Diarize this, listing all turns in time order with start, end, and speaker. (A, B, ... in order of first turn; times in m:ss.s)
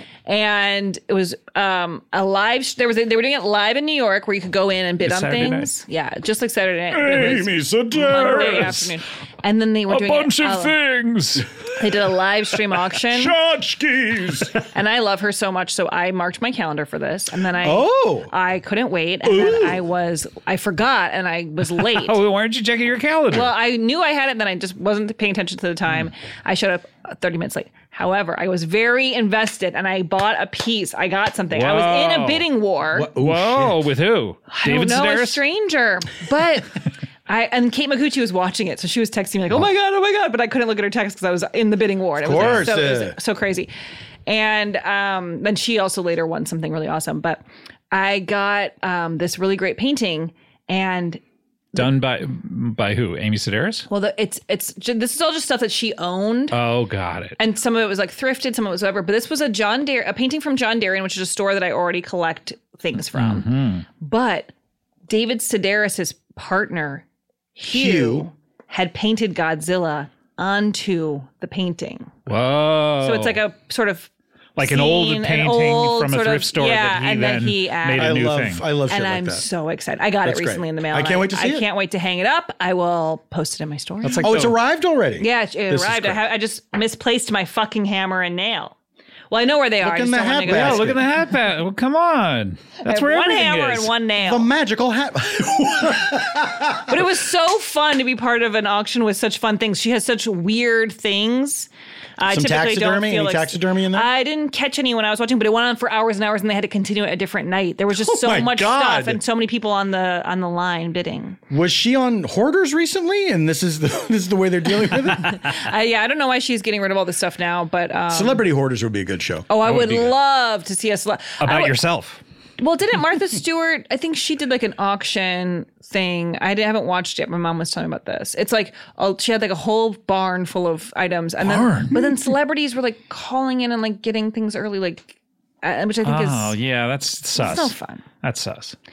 0:00.3-0:10.8 A
0:05.0-0:05.7 B
0:07.0-0:08.8 C
0:07.1-0:08.9 B
0:09.9-0:11.5 B
0:11.8-0:13.3 A
0:13.1-0:14.6 C
0:14.7-0:22.2 A
0:17.6-0:18.3 C
0:19.2-0:19.8 C
0:21.8-0:23.5 B
0:23.3-0:33.1 A
0:31.5-0:32.5 B
0:32.9-0:33.9 C
0:33.2-0:35.4 B
0:34.5-0:43.7 A
0:42.2-0:43.2 C
0:42.4-0:42.7 B
0:44.3-0:51.2 A
0:51.8-0:53.9 B
0:53.9-0:56.6 A
0:56.5-0:57.4 B
0:57.4-1:03.5 A
1:03.1-1:03.9 B
1:04.0-1:04.5 A
1:05.1-1:07.0 A
1:07.6-1:12.1 A
1:07.7-1:08.3 C
1:12.3-1:13.4 B
1:13.0-1:14.1 A
1:14.6-1:18.6 B
1:14.6-1:18.2 A
1:18.0-1:19.5 C
1:18.9-1:24.3 A
1:20.2-1:21.7 C
1:24.0-1:24.6 B
1:24.2-1:26.2 C
1:25.2-1:28.8 A
1:29.3-1:31.0 A
1:29.8-1:31.0 C
1:30.5-1:33.9 B
1:32.8-1:34.5 A
1:34.2-1:37.0 C
1:36.9-1:51.4 A
1:42.2-1:44.1 C
1:47.9-1:49.2 C
1:51.5-1:55.4 C
1:55.1-1:58.4 A
1:58.1-1:59.5 C
1:59.5-2:01.8 A
1:59.6-2:00.2 B
2:01.4-2:02.2 B
2:02.6-2:16.6 A
2:11.4-2:12.3 B
2:16.0-2:18.8 B
2:17.4-2:18.0 A